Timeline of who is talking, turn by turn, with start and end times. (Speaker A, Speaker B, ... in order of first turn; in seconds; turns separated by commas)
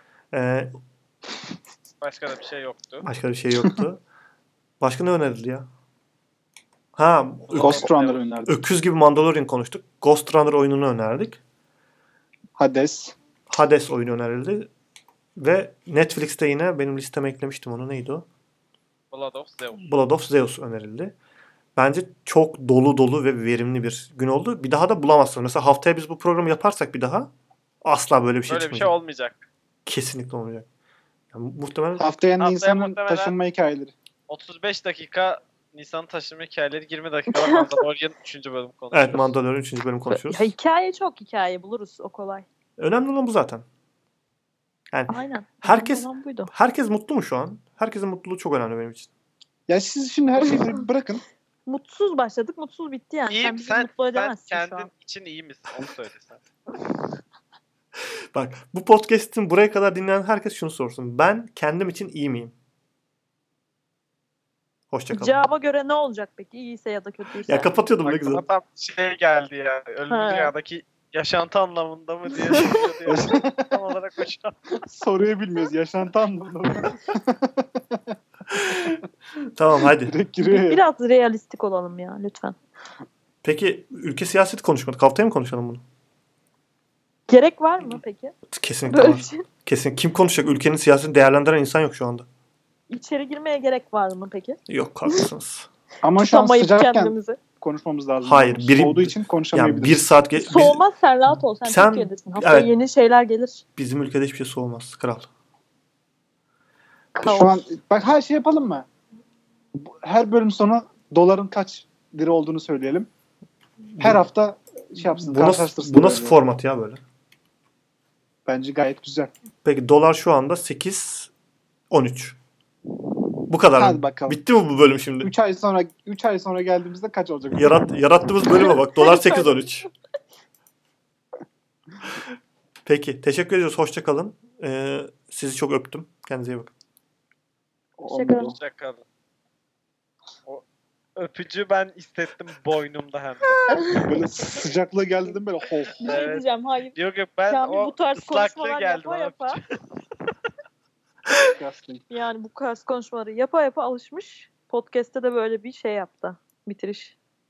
Speaker A: 0.3-0.7, Speaker B: 2.0-3.1, Speaker A: 3.0-4.0, Speaker A: 4.8-5.7, Speaker A: 7.0-7.9, Speaker B: 7.5-8.3, Speaker C: 7.6-8.6, Speaker A: 8.5-11.4, Speaker C: 12.6-13.2, Speaker A: 13.5-14.7, Speaker A: 15.4-18.3, Speaker B: 19.1-19.9, Speaker A: 19.8-21.1, Speaker A: 21.8-27.3, Speaker A: 27.8-28.9, Speaker B: 28.5-29.5, Speaker A: 29.9-30.7, Speaker A: 31.3-32.1, Speaker C: 32.0-34.0, Speaker B: 32.4-33.3, Speaker B: 34.3-39.3, Speaker D: 37.3-37.8, Speaker A: 38.9-40.5, Speaker D: 40.1-42.5, Speaker A: 42.8-43.6, Speaker A: 44.9-49.1, Speaker D: 45.1-46.5, Speaker C: 49.7-51.2, Speaker D: 51.7-54.9, Speaker B: 53.3-56.4, Speaker A: 58.3-62.5, Speaker A: 64.9-65.4, Speaker D: 65.1-67.7, Speaker A: 67.5-68.4, Speaker B: 68.0-74.8, Speaker D: 70.1-70.5, Speaker D: 72.5-72.9, Speaker C: 73.1-73.7, Speaker C: 74.9-78.2, Speaker A: 78.5-79.0, Speaker A: 79.5-80.2, Speaker C: 79.8-80.8, Speaker D: 80.4-82.6, Speaker A: 83.4-85.8, Speaker D: 87.3-88.3, Speaker A: 88.5-92.3, Speaker D: 88.9-89.4, Speaker D: 92.9-94.6, Speaker A: 94.7-95.7, Speaker C: 96.0-100.0, Speaker D: 96.2-97.4, Speaker A: 98.2-102.7, Speaker D: 100.4-103.6, Speaker A: 103.8-105.3, Speaker D: 107.1-107.6, Speaker C: 107.2-108.9, Speaker C: 109.7-113.1, Speaker A: 114.0-114.2, Speaker C: 114.0-116.4, Speaker A: 115.2-117.0, Speaker C: 118.5-119.3, Speaker A: 119.6-121.3, Speaker A: 121.9-122.4, Speaker A: 123.5-125.3, Speaker C: 123.8-124.4, Speaker C: 125.2-127.9, Speaker A: 127.5-129.9, Speaker D: 129.0-129.9, Speaker A: 132.9-136.7, Speaker C: 138.0-138.6, Speaker D: 138.1-138.5, Speaker B: 138.4-139.0, Speaker B: 141.2-143.6, Speaker D: 143.7-144.1, Speaker C: 144.0-146.2, Speaker D: 146.0-146.9, Speaker B: 146.0-149.6, Speaker D: 147.5-149.6, Speaker C: 151.4-152.0, Speaker D: 152.1-157.2